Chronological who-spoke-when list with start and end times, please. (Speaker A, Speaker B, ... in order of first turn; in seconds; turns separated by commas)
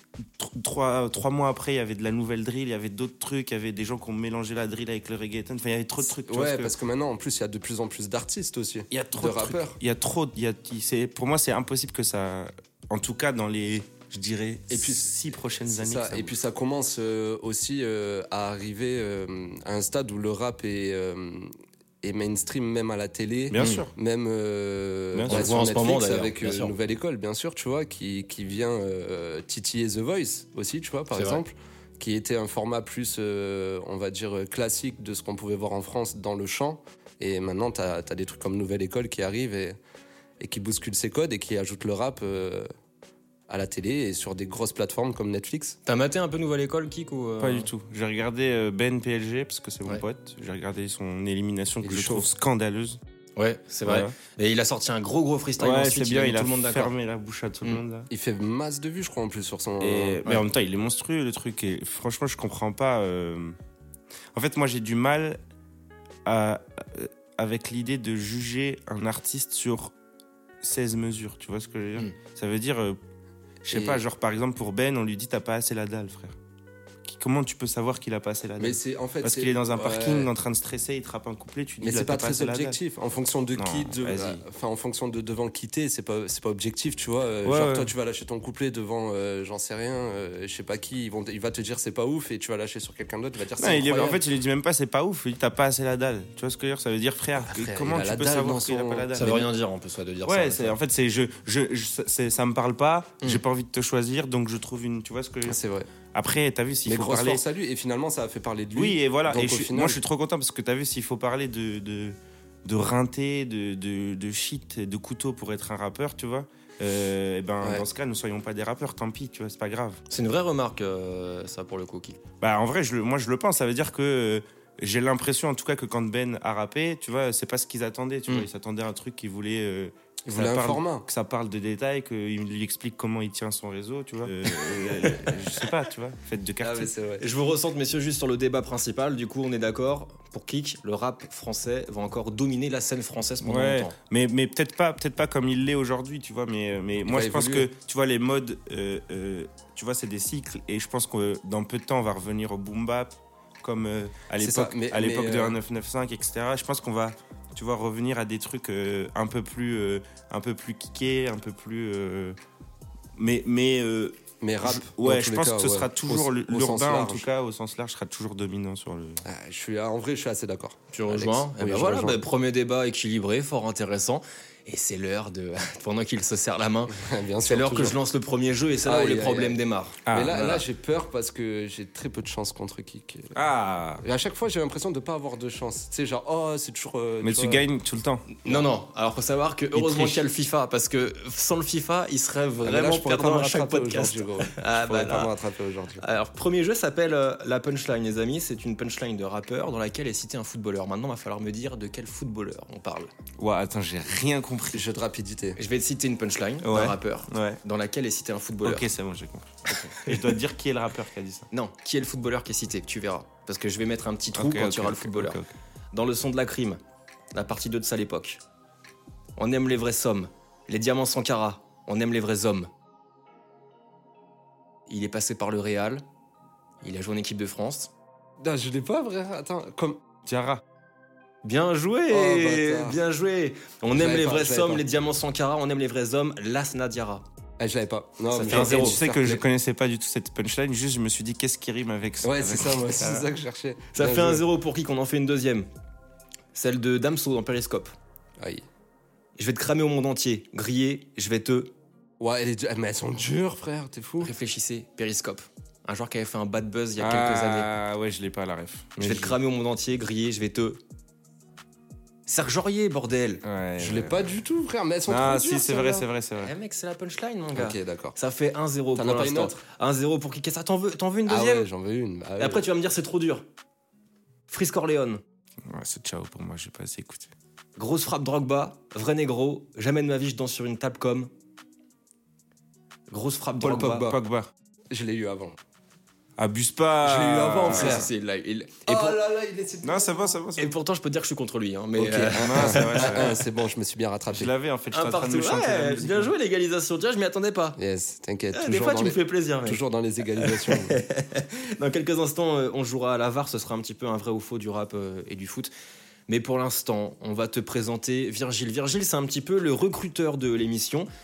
Speaker A: 0.3-6.7, Speaker B: 6.2-9.8, Speaker A: 8.9-16.3, Speaker B: 14.7-39.8, Speaker A: 23.5-23.9, Speaker C: 23.6-23.8, Speaker A: 25.1-25.6, Speaker C: 25.3-26.7, Speaker C: 31.1-31.4, Speaker B: 40.4-42.7, Speaker B: 43.5-45.8, Speaker C: 45.9-47.7, Speaker A: 47.4-53.0, Speaker B: 51.8-52.3, Speaker C: 53.4-56.9, Speaker A: 53.9-54.1, Speaker A: 55.6-58.1, Speaker B: 58.1-60.5, Speaker A: 59.8-63.6, Speaker A: 64.3-65.4, Speaker A: 66.2-69.9, Speaker A: 70.6-73.0, Speaker A: 73.6-76.4, Speaker B: 73.7-74.0, Speaker A: 77.0-82.8, Speaker B: 78.6-80.3, Speaker B: 81.8-94.2, Speaker A: 83.6-84.4, Speaker A: 87.4-87.9, Speaker A: 93.6-99.5, Speaker C: 93.7-94.2, Speaker B: 97.5-99.3, Speaker C: 99.1-100.8, Speaker A: 100.2-105.6, Speaker B: 105.5-105.9, Speaker A: 106.1-107.4, Speaker B: 106.9-110.0, Speaker A: 108.8-120.0, Speaker C: 120.1-122.2, Speaker A: 122.4-136.9, Speaker B: 130.3-131.1, Speaker B: 136.6-137.2, Speaker C: 137.2-143.9, Speaker A: 143.4-162.4, Speaker B: 147.1-147.7, Speaker B: 154.4-155.6, Speaker A: 163.2-169.2, Speaker B: 164.4-167.3, Speaker B: 169.2-172.2, Speaker C: 170.9-176.9, Speaker B: 176.9-178.0, Speaker C: 177.5-180.6, Speaker B: 178.8-179.6, Speaker A: 180.1-180.4, Speaker B: 180.1-183.4, Speaker A: 183.3-184.0, Speaker B: 184.0-187.7, Speaker A: 187.2-188.4, Speaker C: 188.4-195.3, Speaker A: 189.8-190.2, Speaker B: 192.6-196.1, Speaker C: 196.0-203.1, Speaker A: 203.4-204.8, Speaker B: 204.7-205.6, Speaker C: 205.6-208.9, Speaker A: 206.6-207.6, Speaker A: 208.6-211.5, Speaker C: 209.7-210.4, Speaker C: 211.5-215.4, Speaker A: 214.3-215.5, Speaker C: 215.9-216.8, Speaker C: 217.3-218.4, Speaker C: 219.4-222.7, Speaker C: 224.9-226.0, Speaker C: 226.8-227.9, Speaker B: 228.4-230.1, Speaker A: 230.2-230.6, Speaker C: 231.4-237.2, Speaker B: 232.1-233.0, Speaker B: 233.9-234.8, Speaker B: 237.6-239.4, Speaker C: 238.3-239.0, Speaker A: 238.5-243.3, Speaker B: 242.2-244.4, Speaker C: 243.9-245.7, Speaker C: 246.5-247.9, Speaker B: 248.4-248.7, Speaker C: 249.4-251.7, Speaker B: 252.2-254.3, Speaker C: 254.2-257.7, Speaker A: 257.0-259.4, Speaker C: 259.0-260.8, Speaker C: 262.3-263.4, Speaker A: 263.4-264.3, Speaker B: 263.8-266.1, Speaker A: 265.1-266.5, Speaker C: 266.4-271.7, Speaker B: 267.5-268.2, Speaker B: 268.9-269.6, Speaker B: 271.3-272.7, Speaker C: 272.4-273.4, Speaker C: 274.5-275.2, Speaker A: 275.6-277.3, Speaker C: 277.8-281.3, Speaker C: 283.1-284.1, Speaker A: 283.6-284.5, Speaker B: 283.7-284.2, Speaker B: 284.9-285.6, Speaker A: 286.4-288.1, Speaker B: 287.0-288.1, Speaker C: 287.7-289.2, Speaker B: 288.9-290.3, Speaker A: 289.8-290.8, Speaker C: 290.6-293.4, Speaker B: 291.9-294.5, Speaker A: 292.3-293.4, Speaker A: 294.3-296.3, Speaker C: 294.9-297.8, Speaker B: 297.8-301.0, Speaker C: 298.5-299.8, Speaker C: 300.3-305.7, Speaker C: 306.3-311.1